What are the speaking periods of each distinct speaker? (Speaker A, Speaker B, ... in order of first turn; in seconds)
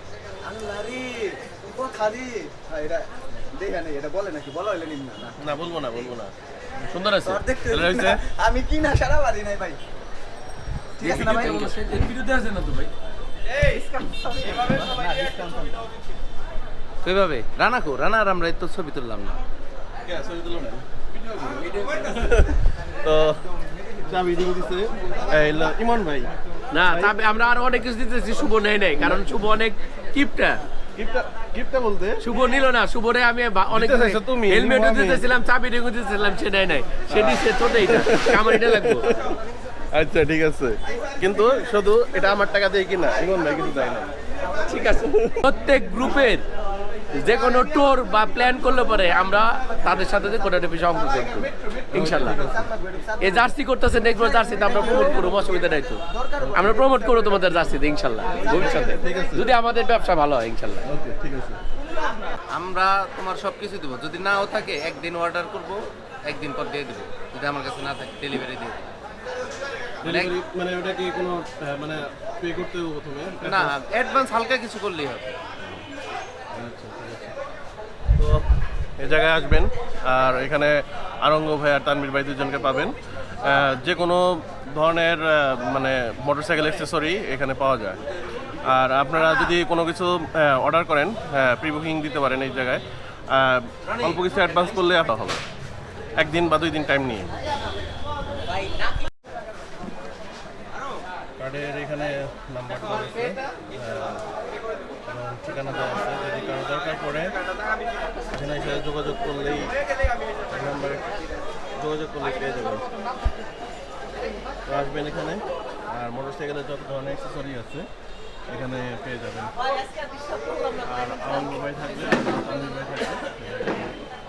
Speaker A: 0.5-5.4, 7.2-9.8, 11.0-11.7, 52.2-53.5, 54.6-55.5, 56.1-57.5, 58.3-59.0
Speaker B: 5.4-6.3, 7.7-8.2, 20.1-23.4, 24.1-26.3, 26.9-27.1, 31.0-32.2, 33.7-35.2, 37.1-39.4, 39.9-44.1, 51.9-52.7, 58.6-59.5, 60.9-61.6, 70.0-73.7, 76.5-77.3, 78.2-78.4, 79.0-88.0, 88.7-95.4, 96.2-97.4, 101.4-104.3, 105.1-107.4, 108.3-109.7, 110.5-111.2, 111.8-112.9, 114.7-117.9, 118.5-119.6, 120.8-124.0
Speaker C: 6.9-7.4, 11.0-12.9, 26.7-30.6, 32.2-39.1, 44.7-46.5, 47.1-52.4, 53.2-60.9
Speaker D: 17.0-19.4, 62.5-68.9, 70.0-70.3, 73.4-75.4